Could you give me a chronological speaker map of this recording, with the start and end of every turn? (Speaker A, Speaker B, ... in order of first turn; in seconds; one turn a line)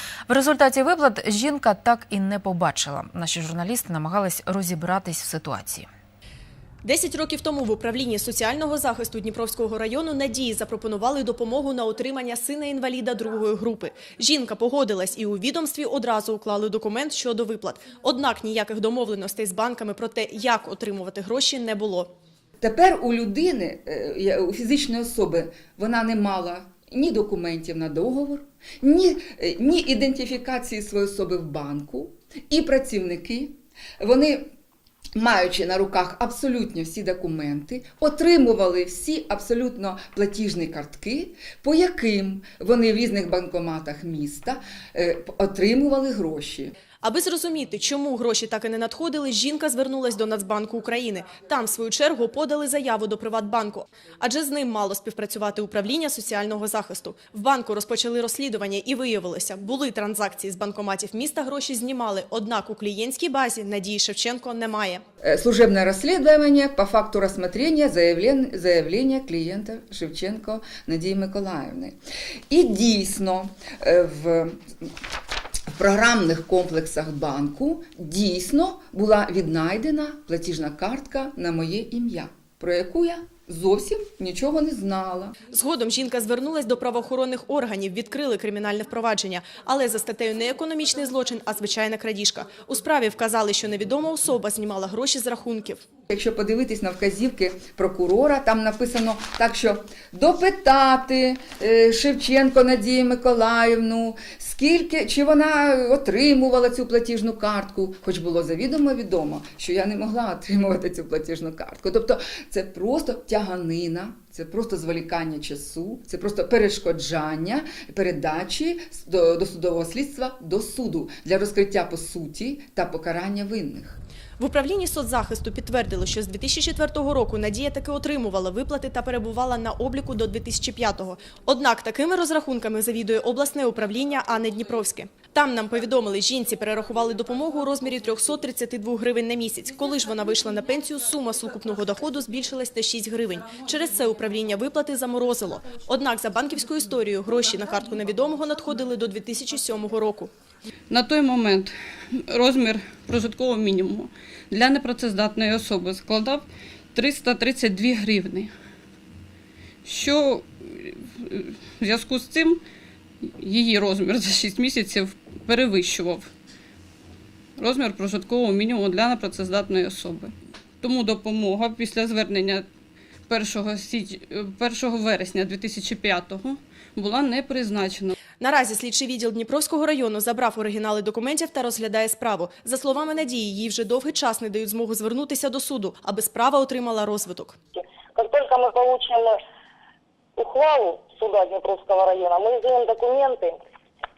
Speaker A: 0.3-5.9
Speaker B: 6.8-22.1
Speaker C: 22.6-34.5
Speaker C: 35.2-46.8
Speaker B: 47.0-65.0
Speaker C: 65.2-72.0
Speaker C: 72.5-74.9
Speaker C: 75.7-85.4
Speaker B: 85.5-95.8
Speaker C: 96.1-124.0
Speaker B: 124.4-150.3
Speaker D: 150.9-151.7
Speaker D: 152.3-158.5
Speaker D: 159.8-162.6
Speaker D: 163.2-166.3
Speaker D: 167.6-172.7
Speaker D: 173.3-178.1
Speaker B: 178.4-187.6
Speaker E: 187.7-189.4
Speaker E: 190.4-193.6